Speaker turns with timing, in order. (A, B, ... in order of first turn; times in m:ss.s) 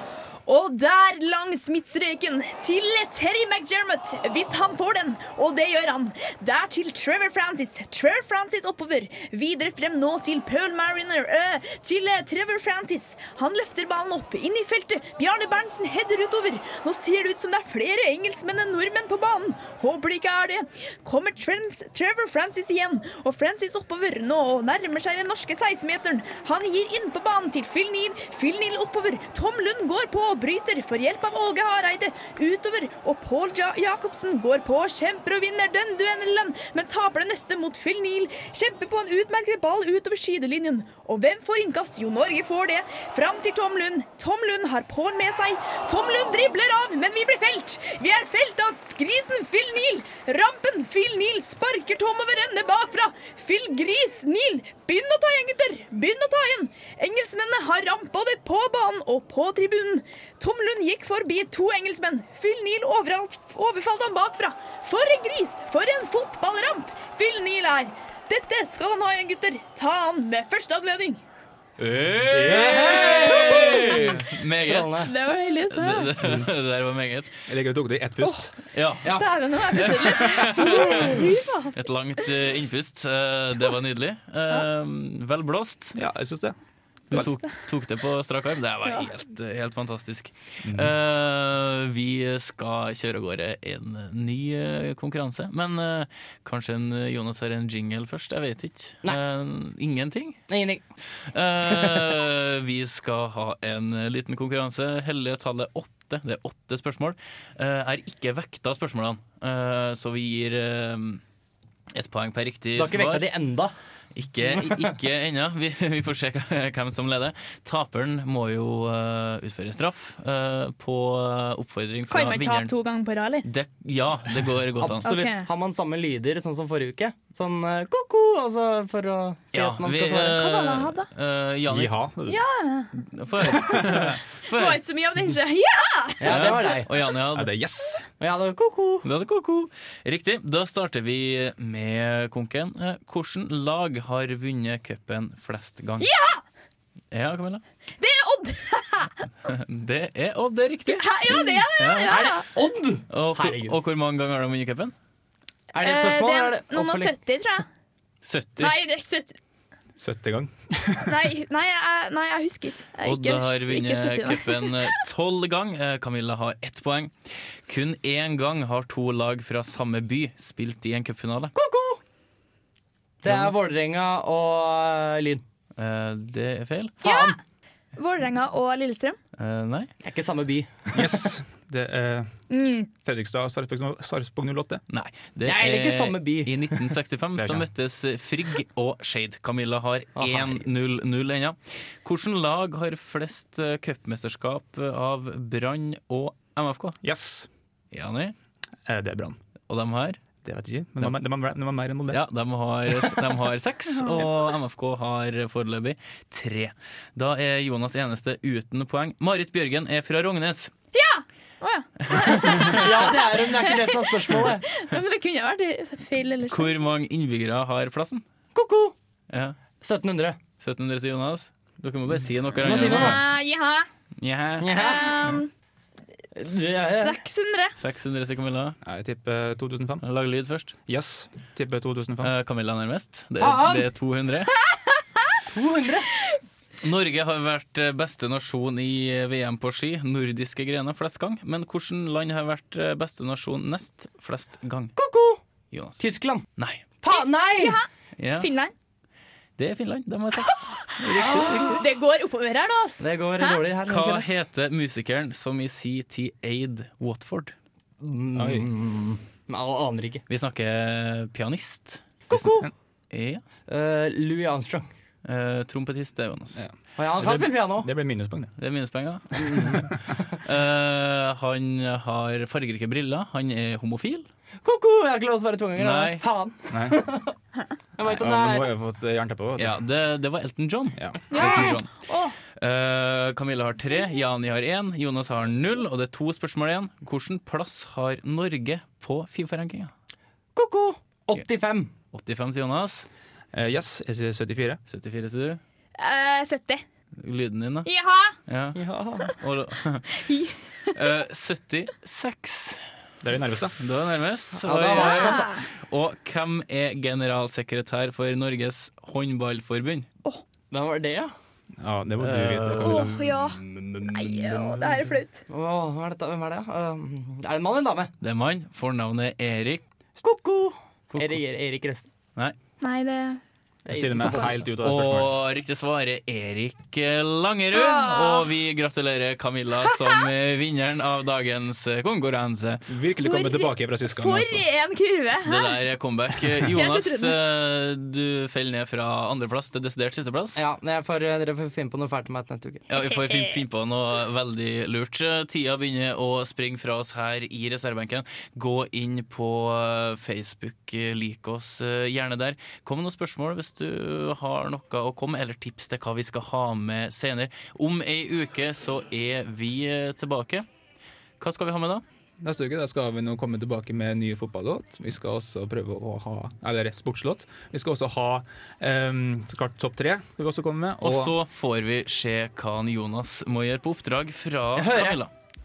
0:00.4-1:11.2 A
1:11.8-1:15.1 B
1:12.3-1:15.1 C
1:15.0-1:16.1 A
1:15.7-1:17.4 B
1:16.2-1:16.5 D
1:17.5-1:18.5 D
1:18.7-1:19.2 B
1:19.1-1:21.8 A
1:19.7-1:26.0 B
1:20.7-1:21.1 C
1:25.9-1:26.5 D
1:27.1-1:40.4 B
1:30.6-1:30.9 D
1:40.5-1:40.8 C
1:41.2-1:51.2 B
1:41.6-1:42.1 C
1:51.9-1:53.3 B
1:52.7-1:53.7 C
1:54.1-2:02.7 B
1:54.5-1:54.9 C
2:02.1-2:03.5 A
2:03.4-2:05.1 B
2:04.8-2:10.4 C
2:05.0-2:05.5 A
2:09.5-2:11.9 B
2:10.3-2:11.1 A
2:11.7-2:12.4 D
2:12.2-2:17.0 A
2:13.0-2:14.8 B
2:16.2-2:16.9 C
2:16.2-2:17.5 B
2:17.3-2:18.0 D
2:18.2-2:19.0 C
2:19.0-2:26.1 B
2:26.0-2:26.4 A
2:27.1-2:27.6 B
2:28.0-2:29.2 A
2:29.5-2:32.3 B
2:30.8-2:32.4 A
2:32.1-2:33.7 C
2:33.1-2:34.9 B
2:35.7-2:37.1 C
2:35.8-2:37.6 A
2:38.2-2:38.7 B
2:38.6-2:39.4 A
2:40.0-2:41.3 D
2:41.0-2:44.9 A
2:43.0-2:47.1 B
2:47.7-2:51.5 B
2:51.5-2:52.0 C
2:53.2-2:55.4 C
2:55.8-2:57.0 B
2:57.0-2:57.4 C
2:57.0-2:57.4 A
2:57.9-2:59.2 A
2:59.4-2:59.9 B
3:00.0-3:01.2 C
3:00.9-3:02.3 D
3:02.5-3:02.9 A
3:03.0-3:04.8 D
3:04.9-3:17.0 B
3:05.4-3:06.8 C
3:07.4-3:07.7 D
3:10.2-3:10.6 C
3:17.0-3:17.5 D
3:17.9-3:18.3 B
3:18.8-3:19.4 D
3:19.7-3:20.2 B
3:20.4-3:22.2 D
3:22.1-3:30.7 B
3:30.9-3:36.7 A
3:32.1-3:32.9 B
3:32.5-3:34.6 C
3:36.5-3:38.2 B
3:38.5-3:38.9 C
3:39.3-3:39.6 B
3:39.8-3:40.4 C
3:40.6-3:43.2 B
3:42.6-3:43.2 C
3:42.7-3:43.9 A
3:44.2-3:44.7 B
3:44.6-3:45.3 C
3:44.7-3:45.5 A
3:46.3-3:47.2 C
3:46.7-3:47.7 A
3:47.8-3:48.8 B
3:48.8-3:50.0 D
3:50.0-3:50.7 B
3:50.9-3:52.3 D
3:52.2-3:54.5 B
3:53.4-3:53.8 C
3:54.7-3:55.2 A
3:55.5-3:56.1 C
3:56.8-4:04.9 B
4:05.0-4:05.4 C
4:05.7-4:06.0 B
4:06.0-4:06.4 C
4:06.6-4:06.8 B
4:07.0-4:07.8 C
4:07.1-4:07.9 A
4:08.2-4:08.5 B
4:08.4-4:08.7 A
4:09.6-4:11.9 B
4:11.0-4:11.8 C
4:11.2-4:13.6 A
4:13.0-4:14.3 C
4:13.9-4:17.5 B
4:18.0-4:20.2 C
4:18.3-4:18.7 D
4:20.3-4:22.4 B
4:22.3-4:22.7 C
4:23.1-4:23.4 B
4:23.7-4:24.9 C
4:25.2-4:26.6 B
4:26.6-4:28.5 D
4:27.0-4:27.9 C
4:28.6-4:34.2 B
4:34.6-4:37.4 C
4:35.8-4:36.2 B
4:36.7-4:37.0 D
4:38.0-4:38.7 C
4:38.0-4:39.8 D
4:39.6-4:41.9 B
4:41.0-4:41.7 D
4:41.3-4:42.4 A
4:42.6-4:49.9 B
4:50.5-4:51.9 C
4:52.1-4:53.1 B
4:53.5-4:54.8 D
4:54.9-4:55.6 B
4:56.0-4:56.8 A
4:57.2-4:57.9 B
4:57.8-4:58.3 A
4:58.5-4:58.8 B
4:58.7-4:59.3 C
4:59.3-5:00.2 B
5:00.2-5:00.6 A
5:00.9-5:02.8 B
5:03.2-5:03.8 D
5:03.8-5:10.1 B
5:04.6-5:05.5 C
5:05.0-5:05.6 A
5:10.7-5:11.3 C
5:11.8-5:13.3 D
5:12.2-5:18.1 C
5:12.8-5:15.4 A
5:18.2-5:19.8 B
5:20.2-5:22.1 C
5:22.8-5:23.4 A
5:23.8-5:24.6 C
5:23.9-5:25.3 D
5:24.8-5:32.8 B
5:27.7-5:28.5 A
5:29.8-5:30.2 A
5:32.8-5:34.6 D
5:33.2-5:35.8 A
5:35.4-5:40.6 B
5:36.7-5:37.4 A
5:40.6-5:42.8 C
5:42.9-6:00.6 B
5:42.9-5:43.6 A
6:01.4-6:02.0 B
6:02.4-6:11.4 D
6:11.0-6:15.3 B
6:14.7-6:15.2 C